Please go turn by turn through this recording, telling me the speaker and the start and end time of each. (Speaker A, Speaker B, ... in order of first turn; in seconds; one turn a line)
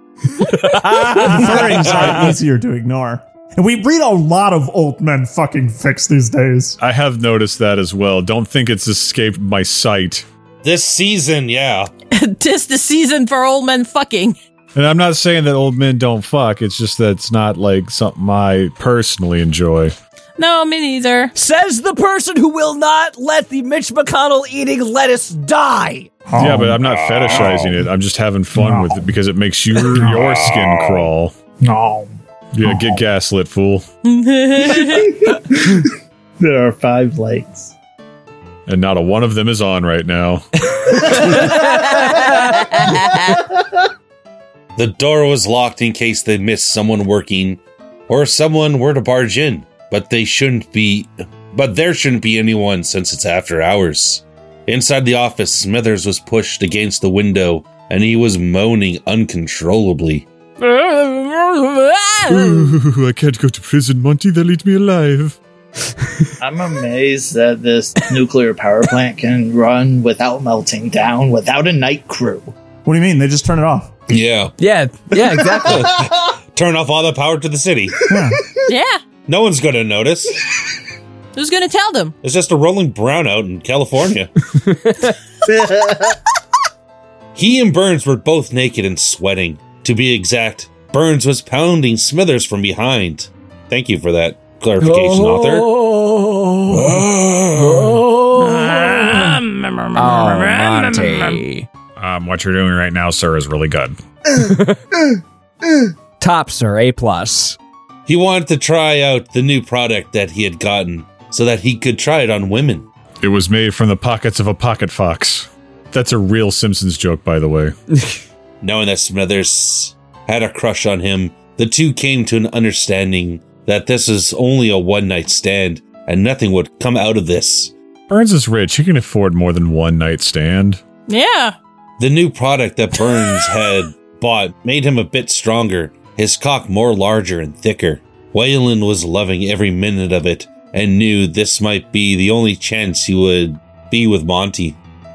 Speaker A: 0.6-1.5
Speaker B: 1.1-6.8
Speaker C: 1.4-2.1
Speaker D: 1.9-2.1
Speaker C: 6.8-10.2
Speaker D: 10.6-11.9
Speaker E: 12.1-14.3
Speaker C: 14.7-19.9
Speaker E: 20.4-21.3
Speaker A: 21.3-26.1
Speaker B: 26.3-26.8
Speaker C: 26.4-31.3
Speaker D: 26.8-27.8
Speaker D: 29.9-31.1
Speaker F: 31.6-33.0
Speaker C: 32.5-33.8
Speaker E: 34.0-35.2
Speaker F: 34.7-37.7
Speaker C: 38.7-41.2
Speaker F: 41.0-43.8
Speaker D: 44.8-60.3
Speaker E: 60.6-62.7
Speaker C: 62.3-65.4
Speaker F: 66.4-72.5
Speaker B: 72.8-73.9
Speaker D: 74.1-74.5
Speaker A: 74.6-75.9
Speaker D: 75.6-78.0
Speaker F: 75.8-76.2
Speaker B: 78.1-78.4
Speaker E: 78.7-79.0
Speaker D: 79.3-80.4
Speaker E: 81.3-82.1
Speaker D: 82.2-84.3
Speaker A: 84.6-85.1
Speaker F: 85.5-86.2
Speaker D: 87.3-95.7
Speaker A: 94.8-99.4
Speaker E: 98.4-101.4
Speaker A: 99.9-101.7
Speaker C: 102.0-104.0
Speaker A: 104.3-104.8
Speaker A: 106.2-107.6
Speaker D: 108.1-112.9
Speaker C: 113.2-117.7
Speaker D: 118.6-127.7
Speaker C: 128.1-130.8
Speaker E: 131.1-131.6
Speaker D: 132.0-144.8